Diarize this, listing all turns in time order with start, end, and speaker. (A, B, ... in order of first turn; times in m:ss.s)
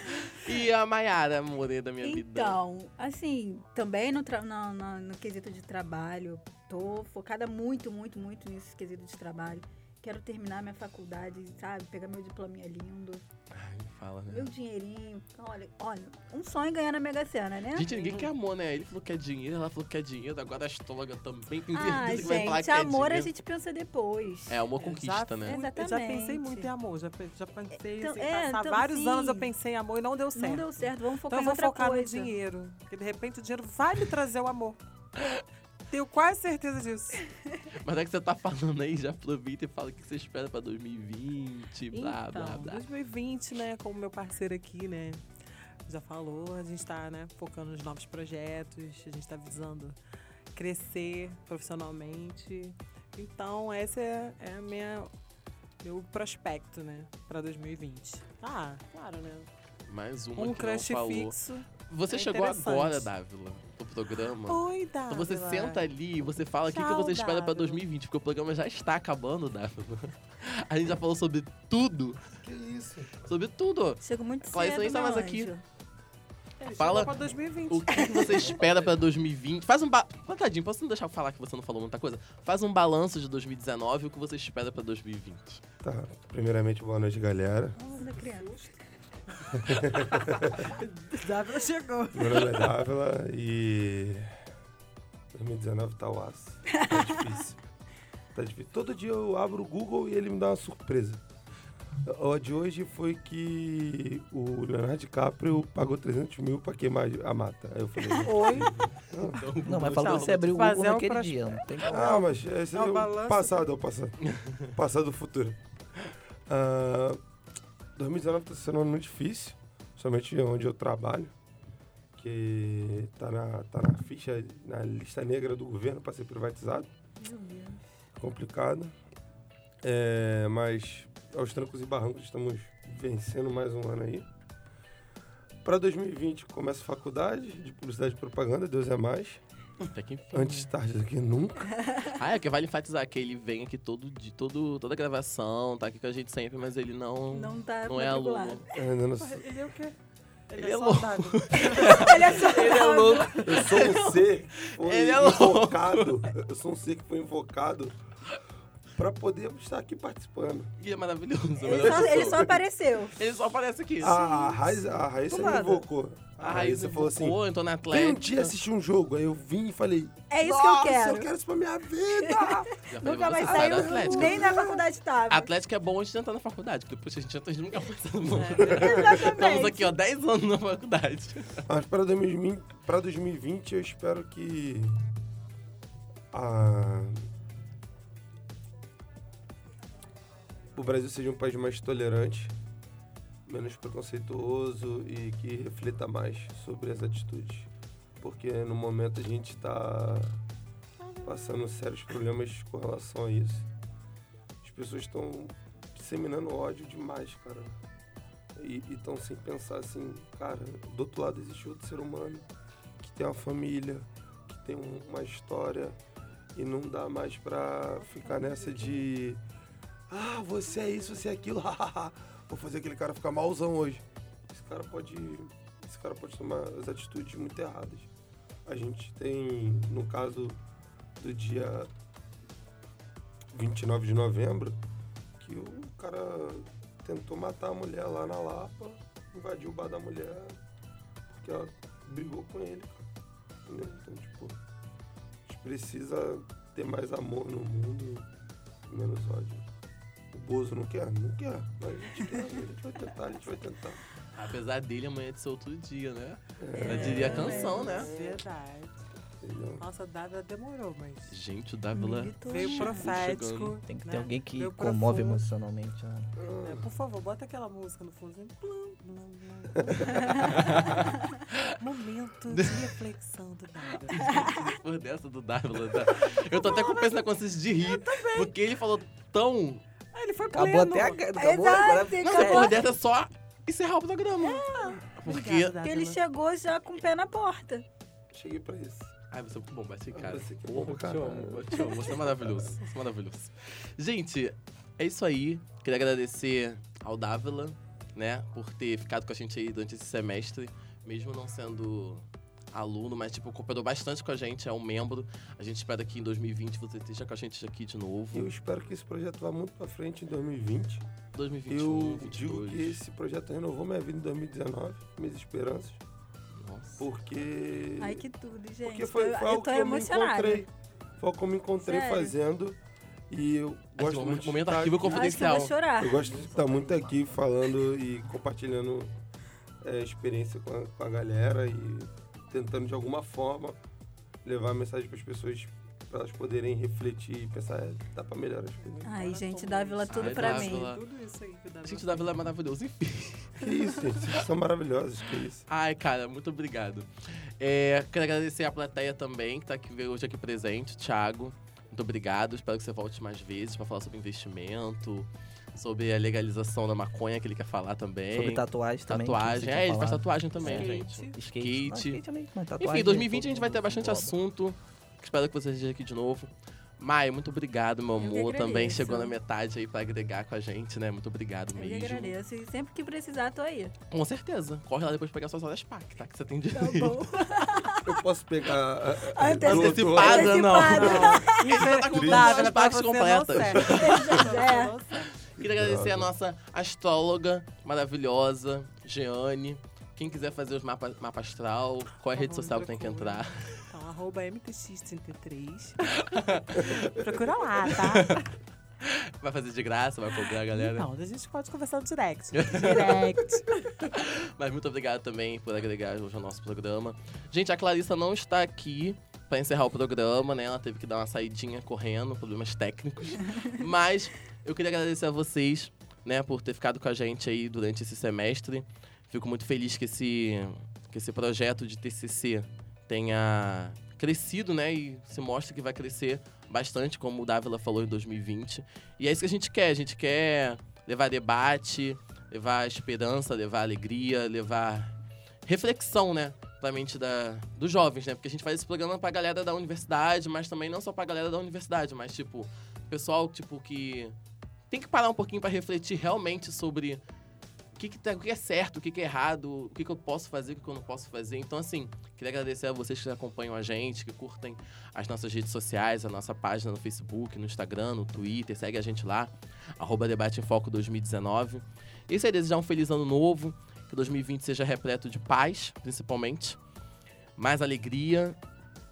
0:00.4-0:02.6 A
0:02.0-0:13.2 B
0:13.5-0:14.5 A
0:14.3-0:18.1 B
0:17.7-0:23.3 A
0:21.7-0:24.6 B
0:24.5-0:25.6 A
0:24.8-0:34.8 C
0:25.4-0:26.7 B
0:27.8-0:29.5 B
0:30.3-0:32.3 B
0:35.9-0:37.2 C
0:37.7-0:42.8 A
0:41.9-0:45.2 C
0:45.9-0:50.0 C
0:50.5-0:55.1 C
0:55.8-0:59.5 C
0:59.9-1:01.4 A
1:00.4-1:03.1 C
1:01.9-1:12.2 A
1:04.4-1:05.9 C
1:06.7-1:07.8 C
1:12.4-1:13.3 D
1:13.2-1:15.5 A
1:14.0-1:15.6 B
1:16.6-1:18.5 C
1:16.8-1:25.6 A
1:18.0-1:18.4 B
1:25.8-1:27.8 D
1:27.8-1:28.5 B
1:27.9-1:28.7 C
1:29.5-1:30.7 D
1:29.8-1:32.7 C
1:32.1-1:34.4 D
1:35.3-1:37.6 D
1:36.7-1:37.2 B
1:38.3-1:41.2 D
1:42.0-1:49.4 D
1:48.2-1:48.7 C
1:48.4-1:50.6 A
1:49.6-1:52.2 E
1:49.9-1:53.7 C
1:51.8-1:55.6 D
1:54.3-1:54.7 A
1:56.5-1:57.2 D
1:58.0-2:01.3 D
2:02.1-2:06.9 D
2:07.2-2:07.8 B
2:08.2-2:08.9 D
2:09.8-2:14.2 D
2:15.6-2:19.4 D
2:19.8-2:20.7 A
2:20.3-2:21.7 D
2:22.1-2:28.7 A
2:27.3-2:28.7 B
2:28.7-2:29.5 D
2:29.2-2:30.0 C
2:30.5-2:32.6 C
2:30.6-2:36.3 A
2:31.7-2:33.7 B
2:33.4-2:38.0 D
2:38.9-2:40.7 D
2:40.8-2:42.6 A
2:41.6-2:43.2 B
2:43.1-2:44.2 A
2:44.0-2:54.8 D
2:44.1-2:45.0 B
2:45.3-2:45.8 E
2:46.4-2:48.6 A
2:50.3-2:51.3 B
2:52.1-2:55.5 B
2:52.9-2:54.7 A
2:55.3-3:01.7 A
2:58.3-2:59.0 C
2:58.7-2:59.9 B
2:58.7-2:59.2 D
3:01.7-3:05.0 D
3:06.3-3:07.3 D
3:10.7-3:12.5 D
3:13.5-3:20.4 D
3:21.0-3:21.5 C
3:21.2-3:23.7 D
3:24.6-3:27.8 D
3:28.6-3:32.4 D
3:33.0-3:36.0 D
3:36.5-3:39.4 D
3:38.2-3:39.0 C
3:40.1-3:48.1 D
3:48.6-3:50.6 D
3:51.2-3:51.9 D
3:53.5-3:54.8 D
3:55.4-4:00.6 D
4:01.4-4:03.0 D
4:03.6-4:04.6 D
4:05.5-4:08.3 D
4:08.9-4:09.6 D
4:10.3-4:14.0 D
4:14.3-4:18.1 A
4:16.6-4:18.4 D
4:16.8-4:19.0 C
4:17.0-4:18.0 B
4:19.4-4:19.8 D
4:19.8-4:21.4 C
4:21.3-4:23.8 A
4:21.9-4:23.1 B
4:22.4-4:25.5 C
4:23.9-4:26.3 E
4:26.4-4:26.9 D
4:26.6-4:31.0 C
4:29.8-4:30.1 D
4:30.3-4:31.7 A
4:31.8-4:34.6 C
4:32.5-4:32.9 A
4:34.1-4:39.8 A
4:36.6-4:37.0 C
4:37.8-4:38.5 C
4:40.1-4:41.2 C
4:40.5-4:42.7 E
4:41.3-4:42.8 B
4:42.2-4:46.2 A
4:44.4-4:45.0 B
4:44.7-4:46.2 C
4:45.8-4:47.8 B
4:48.3-4:49.1 D
4:49.3-5:08.5 A
4:50.1-4:52.7 D
5:08.3-5:11.0 D
5:11.3-5:13.0 A
5:11.7-5:16.0 D
5:16.6-5:17.0 A
5:17.0-5:18.2 D
5:18.0-5:20.7 B
5:18.8-5:22.8 D
5:21.8-5:22.3 B
5:23.3-5:25.3 D
5:24.0-5:25.8 A
5:25.0-5:26.2 B
5:25.9-5:29.1 D
5:26.2-5:27.4 E
5:29.8-5:33.8 D
5:34.4-5:39.2 D
5:38.8-5:42.4 C
5:39.0-5:40.9 B
5:40.1-5:41.0 A
5:41.8-5:43.7 A
5:43.6-5:45.6 D
5:45.7-6:02.2 A
5:58.3-6:04.4 E
6:00.6-6:01.4 C
6:02.8-6:12.4 A
6:08.2-6:09.3 B
6:11.7-6:13.9 B
6:14.1-6:17.4 A
6:16.7-6:18.2 B
6:18.0-6:21.2 D
6:19.3-6:21.8 B
6:19.6-6:24.4 A
6:20.8-6:25.4 C
6:22.1-6:22.7 D
6:23.8-6:25.0 B
6:25.4-6:33.8 A
6:25.6-6:26.3 D
6:32.3-6:36.1 C
6:36.1-6:37.2 A
6:37.0-6:38.5 C
6:37.9-6:38.5 A
6:39.0-6:41.1 A
6:40.3-6:43.8 C
6:42.5-6:43.3 A
6:43.9-7:15.1 A
7:15.6-7:24.3 A
7:24.9-7:27.2 A
7:28.0-7:46.8 A
7:47.6-7:48.6 A